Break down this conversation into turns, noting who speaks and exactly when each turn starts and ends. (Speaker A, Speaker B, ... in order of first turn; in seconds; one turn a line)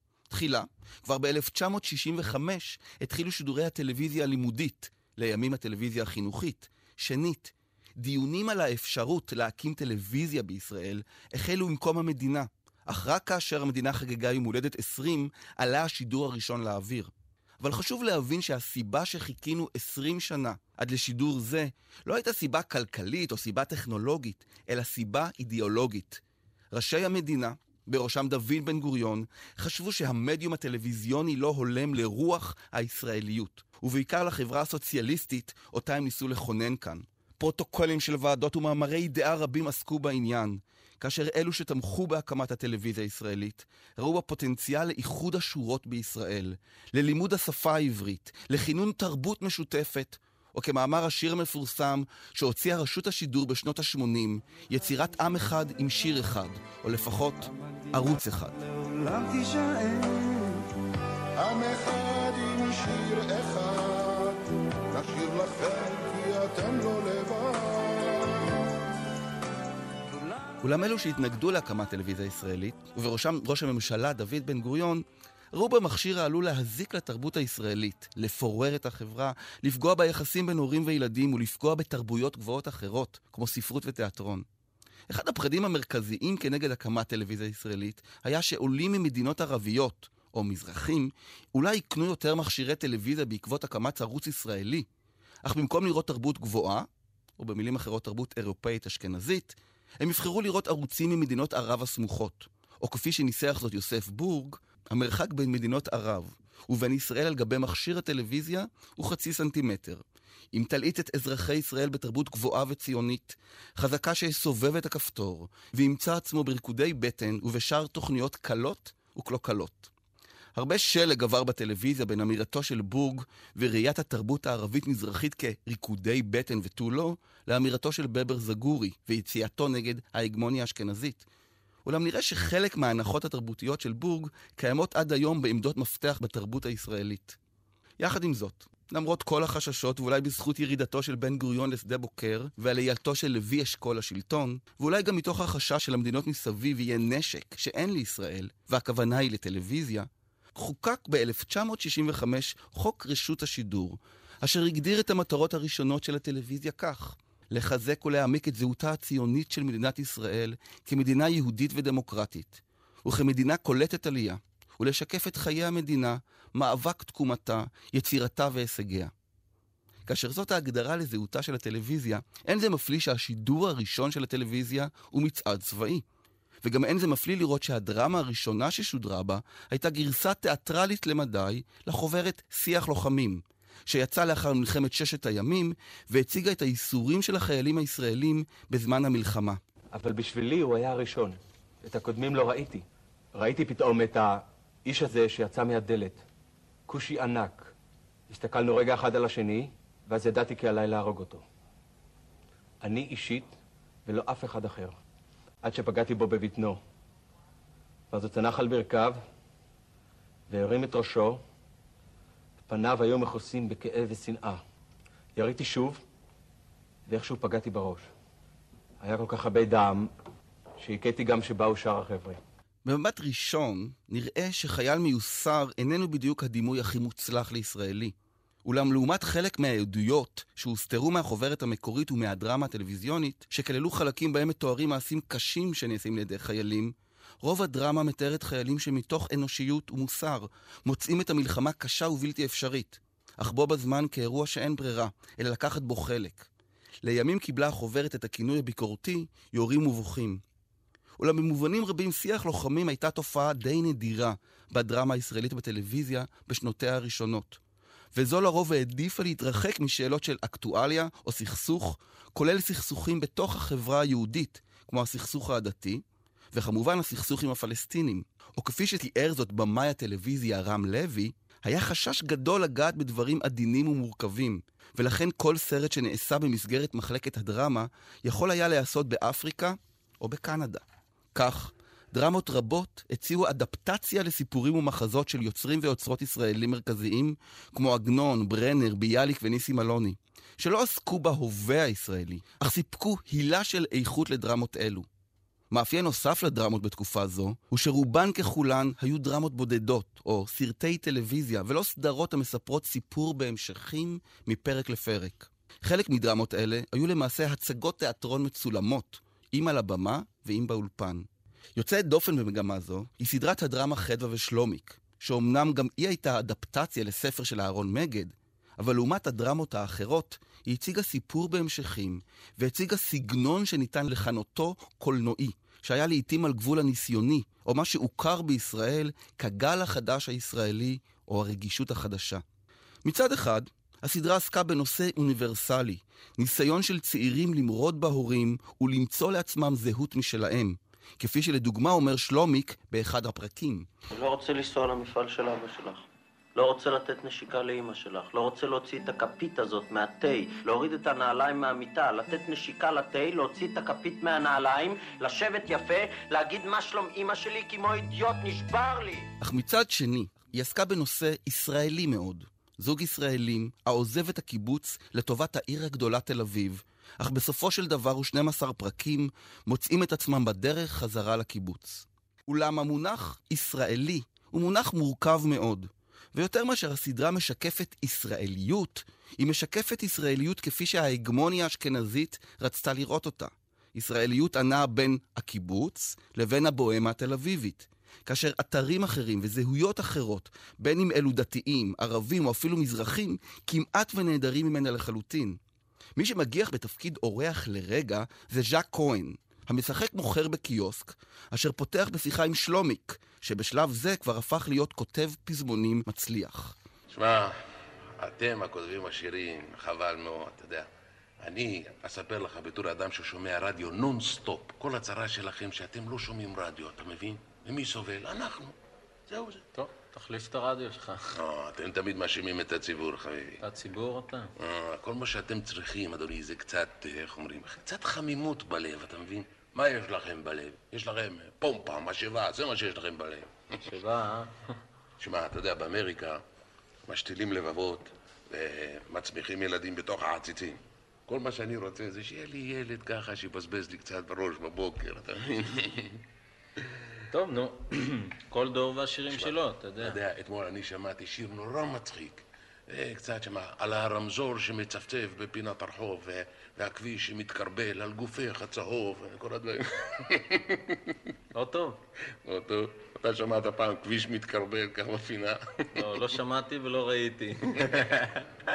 Speaker A: 0.3-58.6
Speaker B: 59.0-60.4
Speaker B: 61.4-68.6
Speaker A: 70.6-84.5
Speaker A: 85.1-94.9
Speaker A: 95.4-119.9
Speaker A: 120.6-131.3
Speaker A: 131.8-137.4
Speaker A: 138.0-169.1
Speaker A: 170.1-176.0
Speaker A: 176.6-189.6
Speaker C: 189.9-192.8
Speaker C: 193.4-196.2
Speaker C: 196.9-197.7
Speaker C: 198.3-201.4
Speaker C: 202.8-205.0
Speaker C: 205.6-206.8
Speaker C: 208.1-209.2
Speaker C: 210.5-211.4
Speaker C: 212.7-214.6
Speaker C: 215.4-216.0
Speaker C: 217.1-218.1
Speaker C: 219.0-220.1
Speaker C: 220.8-222.4
Speaker A: 222.8-228.1
Speaker A: 228.7-246.5
Speaker A: 247.0-250.4
Speaker A: 251.2-257.6
Speaker A: 258.1-295.1
Speaker A: 295.7-332.4
Speaker A: 333.0-343.9
Speaker D: 344.1-359.3
Speaker A: 359.4-395.6
Speaker A: 396.2-406.8
Speaker E: 407.1-407.6
Speaker E: 408.2-410.9
Speaker E: 411.4-418.8
Speaker E: 419.3-419.6
Speaker F: 419.7-421.2
Speaker E: 421.3-423.6
Speaker F: 423.6-424.5
Speaker E: 424.6-433.8
Speaker F: 433.8-434.5
Speaker E: 435.2-436.4
Speaker E: 437.1-446.2
Speaker F: 447.3-450.2
Speaker E: 449.3-461.2
Speaker F: 461.5-462.0
Speaker E: 462.4-466.3
Speaker F: 465.9-468.4